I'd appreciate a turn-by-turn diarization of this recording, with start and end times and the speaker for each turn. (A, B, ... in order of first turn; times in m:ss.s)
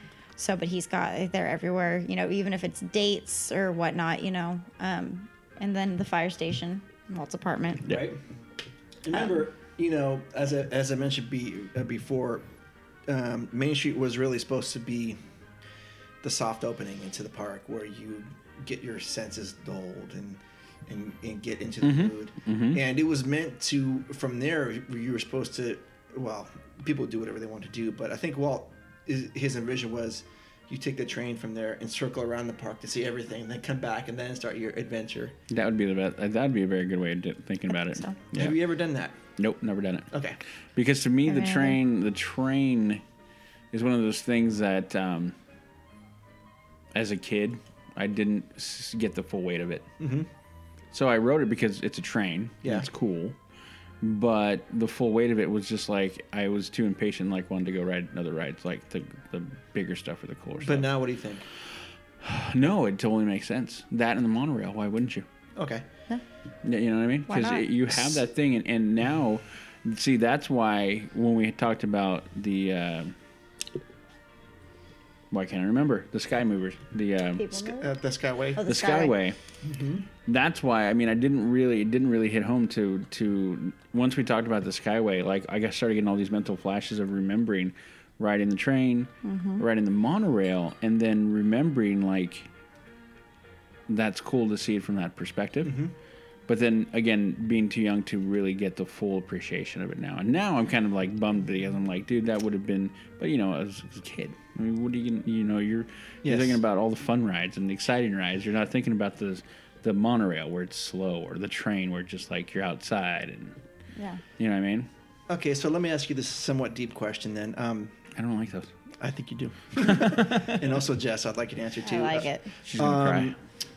0:00.4-0:07.9 A
0:07.8-0:08.2 B
0:09.0-0:12.4 B
0:13.1-0:15.2 B
0:16.2-0:35.4 B
0:21.8-0:22.8 C
0:35.5-0:38.6 C
0:37.8-0:38.2 A
0:38.3-0:39.2 B
0:39.4-0:40.1 C
0:40.1-0:40.4 B
0:40.8-0:43.0 C
0:41.3-0:41.8 A
0:43.7-0:45.4 C
0:46.9-0:49.9 C
0:50.0-0:50.3 B
0:50.9-0:53.4 C
0:54.0-1:00.9 C
1:00.6-1:01.5 B
1:02.2-1:05.3 C
1:05.6-1:05.8 B
1:06.6-1:13.1 C
1:07.3-1:07.7 A
1:15.3-1:17.6 C
1:17.4-1:17.9 A
1:17.7-1:18.6 B
1:18.6-1:19.2 A
1:18.7-1:19.4 C
1:19.6-1:20.1 B
1:20.3-1:32.5 C
1:29.2-1:29.6 A
1:33.9-1:35.8 C
1:35.6-1:35.9 B
1:36.5-1:53.6 C
1:46.2-1:46.6 B
1:54.0-1:54.2 A
1:54.4-1:54.9 C
1:55.3-1:58.0 B
1:58.2-1:58.7 C
1:59.0-2:03.4 B
1:59.8-2:00.6 C
2:01.8-2:02.6 A
2:02.7-2:03.4 C